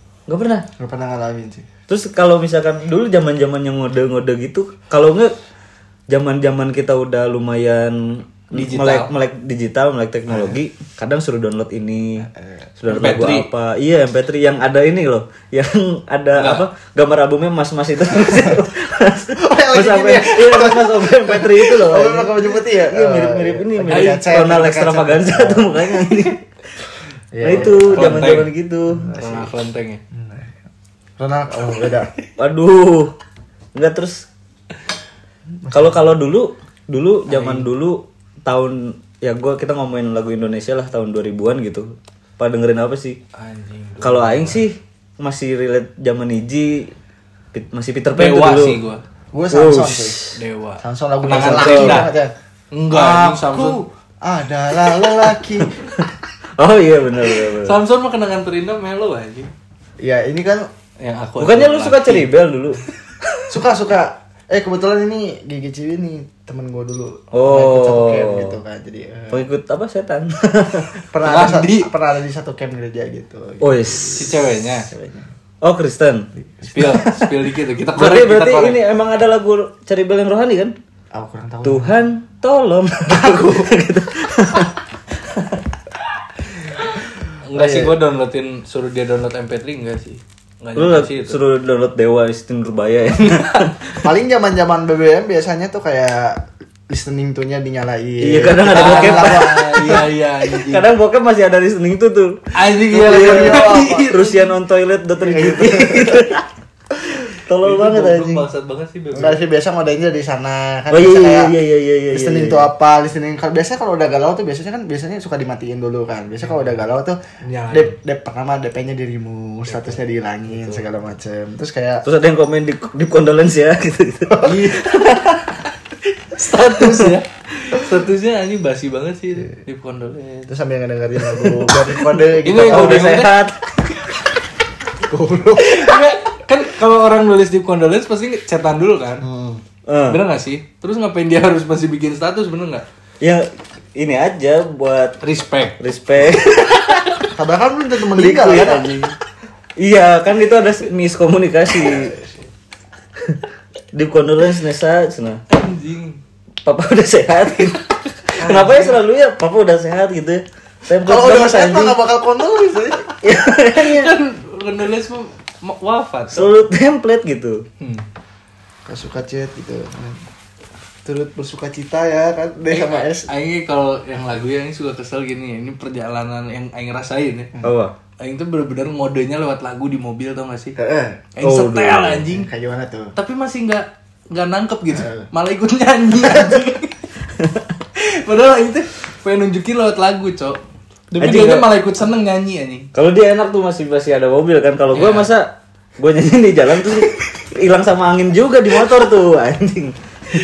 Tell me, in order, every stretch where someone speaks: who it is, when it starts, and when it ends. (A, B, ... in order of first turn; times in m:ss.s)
0:00.3-0:00.7 A
0:00.8-0:01.7 B
0:01.9-0:05.3 A
0:06.1-0:26.4 A
0:08.5-0:09.1 C
0:10.3-0:10.6 B
0:12.9-0:13.5 C
0:16.4-0:16.6 C
0:19.4-0:25.9 B
0:23.9-0:24.3 C
0:27.3-0:28.2 B
0:27.4-0:28.5 C
0:27.4-0:29.1 A
0:29.0-0:29.5 B
0:29.1-0:30.0 C
0:30.1-0:30.6 B
0:31.2-0:32.1 B
0:32.4-0:33.1 A
0:33.7-0:34.3 A
0:35.6-0:36.1 B
0:35.7-0:43.2 A
0:37.3-0:37.7 C
0:43.4-0:44.6 C
0:44.0-0:46.9 A
0:47.5-0:48.8 A
0:48.1-0:49.0 C
0:49.3-0:50.2 B
0:49.5-0:50.4 A
0:50.4-0:52.1 C
0:50.8-0:52.3 B
0:51.3-0:52.1 A
0:52.7-0:53.8 C
0:52.9-0:55.9 B
0:55.6-0:57.8 A
0:57.6-0:59.5 C
1:00.0-1:00.7 B
1:01.0-1:02.3 C
1:01.4-1:02.8 A
1:03.5-1:09.4 B
1:07.3-1:08.6 A
1:09.3-1:10.9 A
1:11.1-1:15.3 B
1:11.2-1:11.9 C
1:13.6-1:14.4 A
1:14.2-1:14.9 C
1:15.6-1:17.3 A
1:16.4-1:17.0 B
1:16.7-1:18.8 C
1:17.9-1:20.8 A
1:21.1-1:22.0 B
1:21.6-1:25.6 A
1:27.4-1:31.4 C
1:27.5-1:28.0 B
1:30.8-1:33.8 A
1:33.2-1:33.7 C
1:34.0-1:40.1 B
1:38.2-1:40.0 A
1:38.6-1:40.9 C
1:40.6-1:42.4 A
1:42.5-1:44.5 C
1:42.9-1:44.2 B
1:42.9-1:46.4 A
1:45.2-1:46.4 B
1:47.4-1:48.4 A
1:47.6-1:49.4 C
1:49.1-1:51.5 B
1:50.9-1:52.7 A
1:52.1-2:02.1 B
1:56.4-1:56.8 C
1:57.4-1:58.0 C
1:59.7-2:00.8 C
2:02.0-2:05.5 A
2:04.3-2:04.8 B
2:04.4-2:05.1 C
2:06.1-2:10.5 C
2:10.5-2:13.2 B
2:12.4-2:13.4 C
2:12.5-2:13.6 A
2:15.1-2:16.0 B
2:15.6-2:19.3 C
2:19.2-2:19.6 B
2:19.9-2:20.2 A
2:20.1-2:22.8 C
2:23.2-2:25.2 A
2:25.2-2:25.8 C
2:25.8-2:27.2 A
2:26.8-2:27.3 C
2:27.3-2:28.9 B
2:28.2-2:29.1 A
2:28.5-2:29.1 C
2:29.8-2:32.1 A
2:31.9-2:32.3 B
2:33.9-2:35.4 A
2:35.5-2:36.2 C
2:36.6-2:42.0 A
2:38.5-2:38.9 B
2:41.0-2:43.2 B
2:43.1-2:44.1 A
2:43.7-2:46.5 C
2:46.3-2:47.7 A
2:47.8-2:48.1 C
2:48.9-2:50.2 B
2:51.0-2:53.3 B
2:52.7-2:57.5 C
2:57.6-2:57.9 A
2:58.2-3:00.8 C
3:00.8-3:01.3 B
3:01.4-3:02.5 C
3:01.4-3:02.3 A
3:02.2-3:03.1 B
3:03.2-3:07.0 C
3:05.0-3:05.3 B
3:08.0-3:10.6 C
3:11.1-3:12.9 C
3:11.2-3:11.7 A
3:12.9-3:20.4 A
3:14.9-3:15.3 C